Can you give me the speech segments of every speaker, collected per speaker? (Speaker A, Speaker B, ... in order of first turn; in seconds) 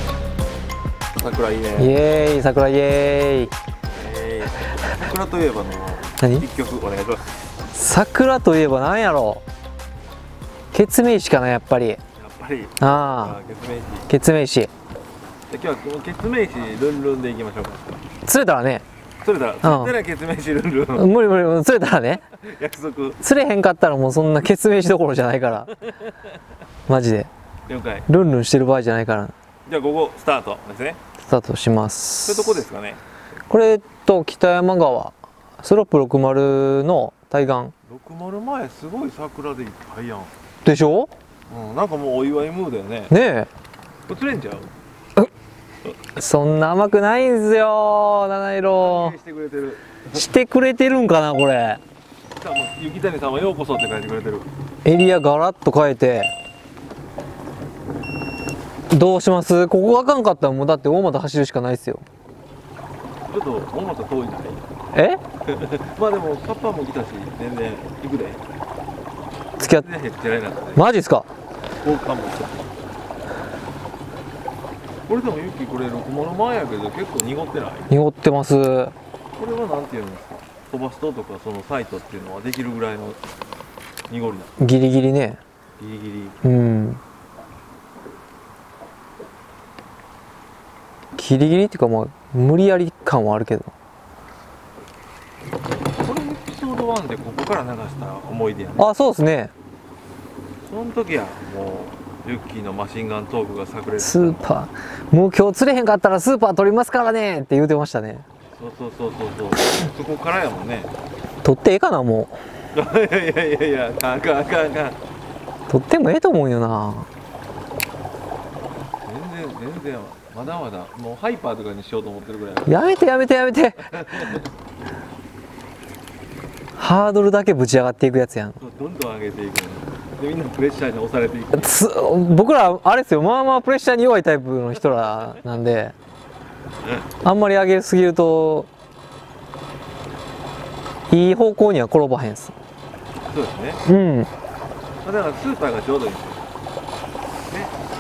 Speaker A: 1.1-1.9, 3.9-7.2, 12.2-14.1, 15.5-18.0, 19.2-21.1, 22.3-23.2, 25.8-26.1, 27.7-28.1, 29.7-31.0, 32.2-33.0, 37.9-40.3, 41.5-43.1, 44.1-44.7, 48.7-50.2, 52.4-54.5, 63.3-64.6, 65.5-68.4, 69.6-70.8, 71.8-72.7, 75.1-77.9, 79.4-83.2, 84.1-84.5, 85.8-86.5, 96.0-98.9, 100.6-104.4, 108.5-110.9, 112.7-115.0, 119.0-122.9, 123.8-124.5, 128.6-131.8, 143.3-143.8, 145.0-146.5
Speaker B: 1.8-3.6, 6.2-6.5, 7.7-9.4, 10.7-12.0, 12.8-13.4, 14.1-14.7, 18.2-18.8, 19.6-19.9, 20.9-22.2, 23.2-25.7, 26.9-27.3, 28.1-29.3, 31.2-32.6, 33.5-37.7, 40.6-41.1, 43.1-43.5, 46.2-49.1, 50.1-51.8, 54.9-56.3, 58.9-62.0, 64.9-65.2, 69.6-69.9, 70.8-71.3, 77.9-79.0, 84.6-85.4, 86.4-87.0, 91.2-93.7, 98.8-99.5, 104.0-108.3, 111.4-112.4, 115.7-117.1, 122.7-124.4, 126.8-128.6, 131.5-135.9, 137.2-138.7, 141.1-142.6, 143.9-144.3